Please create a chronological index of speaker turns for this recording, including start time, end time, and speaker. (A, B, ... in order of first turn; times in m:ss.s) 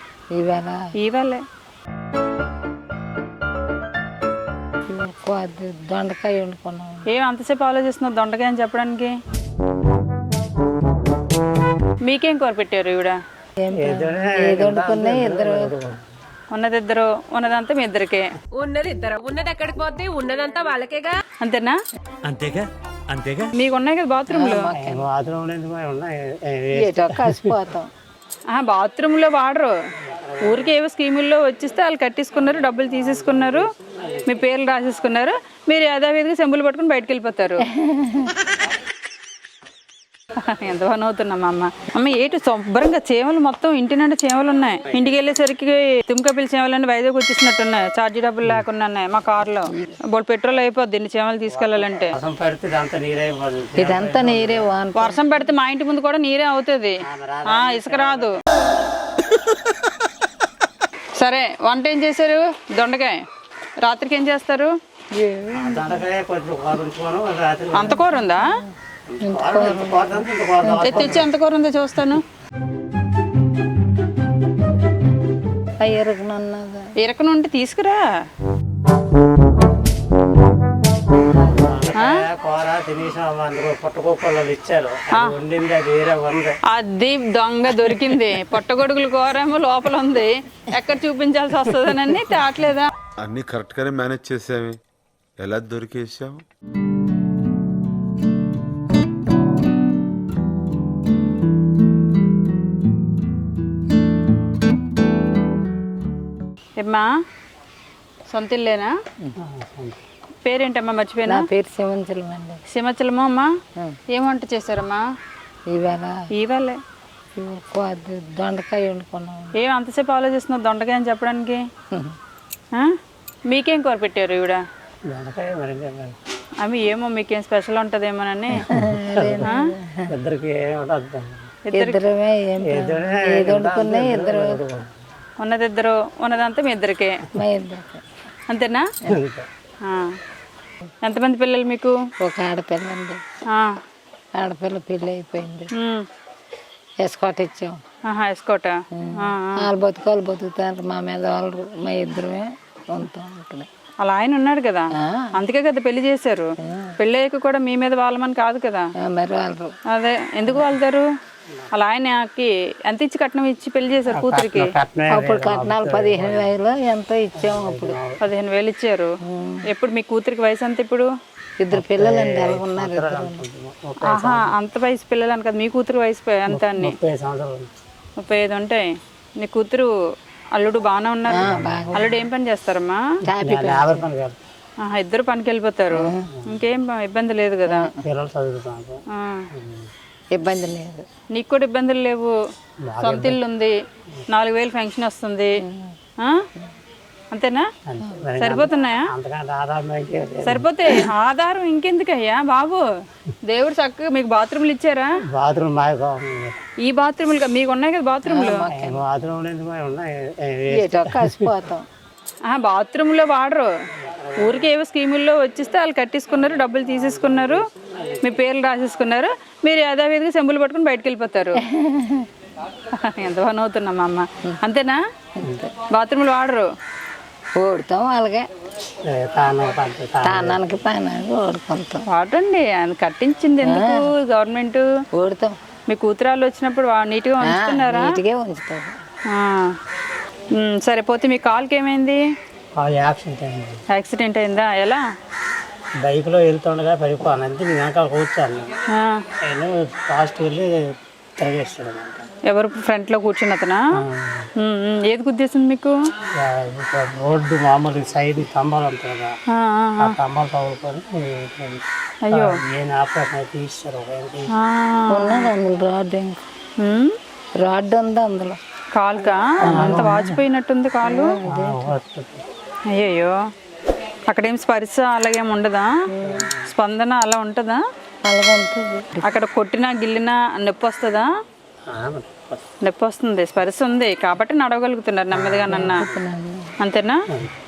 0:00.4-0:00.8 A
0:01.0-0:01.4 B
0:04.9-0:07.0 A
0:07.1-0:09.1 B
0:12.0-0:13.2 B
0:13.6-0:15.7 A
0:13.8-0:16.0 C
0:16.5-0:18.3 B
0:18.6-0:21.2 D
0:21.4-0:21.8 B
0:22.3-0:23.5 C
0:23.5-0:24.7 B
0:24.3-0:25.1 A
0:24.7-0:27.6 C
0:26.7-0:27.9 A
0:28.5-0:29.8 B
0:30.0-0:30.7 C
0:30.4-0:33.7 B
0:33.2-0:33.6 C
0:34.3-0:37.7 B
0:37.7-0:38.4 A
0:40.4-0:52.2 B
0:51.5-0:54.7 C
0:53.8-0:55.2 A
0:55.0-0:57.0 B
0:57.0-0:58.3 C
0:57.5-0:58.4 B
1:01.2-1:03.2 B
1:03.8-1:04.7 B
1:05.1-1:06.0 A
1:05.6-1:08.1 C
1:07.8-1:08.5 B
1:08.0-1:08.7 A
1:09.1-1:11.3 C
1:09.2-1:11.3 A
1:10.8-1:12.2 B
1:15.8-1:16.8 A
1:17.0-1:18.1 B
1:21.5-1:26.6 C
1:26.7-1:32.9 B
1:33.2-1:34.8 E
1:35.4-1:36.4 E
1:46.8-1:47.1 B
1:48.3-1:48.9 B
1:49.4-1:50.0 C
1:50.4-1:51.4 B
1:51.3-1:52.6 A
1:52.7-1:53.5 B
1:54.1-1:55.0 B
1:55.7-1:56.1 A
1:56.4-1:56.8 B
1:57.4-1:59.5 A
1:59.6-2:01.6 B
2:03.5-2:04.6 B
2:05.1-2:06.2 C
2:06.6-2:08.7 B
2:08.6-2:10.1 A
2:08.8-2:09.4 C
2:10.1-2:11.5 C
2:11.7-2:12.0 B
2:11.7-2:14.6 A
2:12.7-2:14.9 C
2:15.4-2:17.2 B
2:17.3-2:18.0 A
2:18.5-2:18.9 B
2:19.1-2:19.5 C
2:19.8-2:20.2 B
2:21.0-2:22.0 B
2:22.2-2:23.2 A
2:23.5-2:23.8 B
2:24.4-2:25.7 A
2:25.8-2:26.1 B
2:27.0-2:27.8 A
2:28.1-2:29.7 B
2:28.9-2:33.7 A
2:34.0-2:38.8 B
2:35.0-2:35.3 A
2:36.6-2:36.9 A
2:39.0-2:39.7 A
2:39.9-2:41.1 B
2:41.7-2:44.7 B
2:44.1-2:46.5 C
2:45.1-2:48.0 A
2:47.4-2:48.2 C
2:48.2-2:49.1 B
2:49.3-2:49.6 A
2:49.7-2:51.1 B
2:51.6-2:53.4 A
2:51.7-2:54.5 C
2:54.0-2:57.0 B
2:56.5-2:57.7 C
2:58.2-2:58.8 B
2:59.4-2:59.9 B
3:00.5-3:03.0 B
3:01.3-3:02.1 A
3:01.4-3:02.0 C
3:03.3-3:04.0 A
3:03.4-3:04.4 C
3:04.8-3:07.9 B
3:05.9-3:06.3 A
3:07.7-3:08.0 A
3:08.0-3:09.9 C
3:09.1-3:09.5 B
3:10.3-3:11.1 A
3:11.3-3:12.3 B
3:12.9-3:13.4 C
3:13.0-3:13.8 B
3:14.3-3:15.5 B
3:15.6-3:15.9 A
3:17.3-3:17.7 B
3:17.9-3:20.7 C
3:18.4-3:19.1 B
3:20.4-3:22.8 B
3:23.4-3:25.2 B
3:25.3-3:26.6 C
3:26.8-3:28.7 B
3:28.3-3:29.0 A
3:28.7-3:31.5 C
3:30.7-3:31.8 A
3:32.4-3:33.7 B
3:34.0-3:34.7 C
3:34.4-3:37.6 B
3:36.7-3:38.3 C
3:38.2-3:41.6 B
3:41.6-3:42.3 A
3:42.9-3:45.0 B
3:45.4-3:45.7 A
3:45.4-3:45.7 C
3:45.9-3:46.7 B
3:47.6-3:48.4 A
3:49.0-3:50.6 C
3:50.2-3:52.0 A
3:52.1-3:54.9 B
3:53.6-3:54.1 A
3:55.2-3:55.6 A
3:55.9-3:58.2 B
3:57.4-3:58.9 A
3:59.3-3:59.8 B
4:00.6-4:02.2 B
4:02.8-4:03.8 C
4:03.9-4:05.0 B
4:06.0-4:08.7 C
4:08.9-4:09.2 B
4:09.4-4:10.7 C
4:11.4-4:12.3 C
4:12.5-4:13.8 B
4:14.0-4:14.5 C
4:14.6-4:16.0 B
4:16.4-4:19.3 C
4:19.5-4:20.2 B
4:20.0-4:24.5 C
4:22.2-4:22.6 B
4:24.6-4:25.5 B
4:25.1-4:26.4 A
4:26.8-4:27.2 B
4:27.6-4:28.6 A
4:29.0-4:31.4 B
4:29.6-4:30.4 A
4:29.7-4:30.1 C
4:31.0-4:31.9 A
4:31.5-4:32.4 C
4:32.9-4:33.4 B
4:34.3-4:35.9 B
4:36.1-4:36.5 A
4:36.2-4:36.6 C
4:36.7-4:37.8 B
4:38.2-4:39.3 A
4:39.2-4:41.3 B
4:41.9-4:42.6 C
4:42.8-4:46.0 B
4:45.3-4:46.1 C
4:45.7-4:46.7 A
4:46.8-4:47.2 B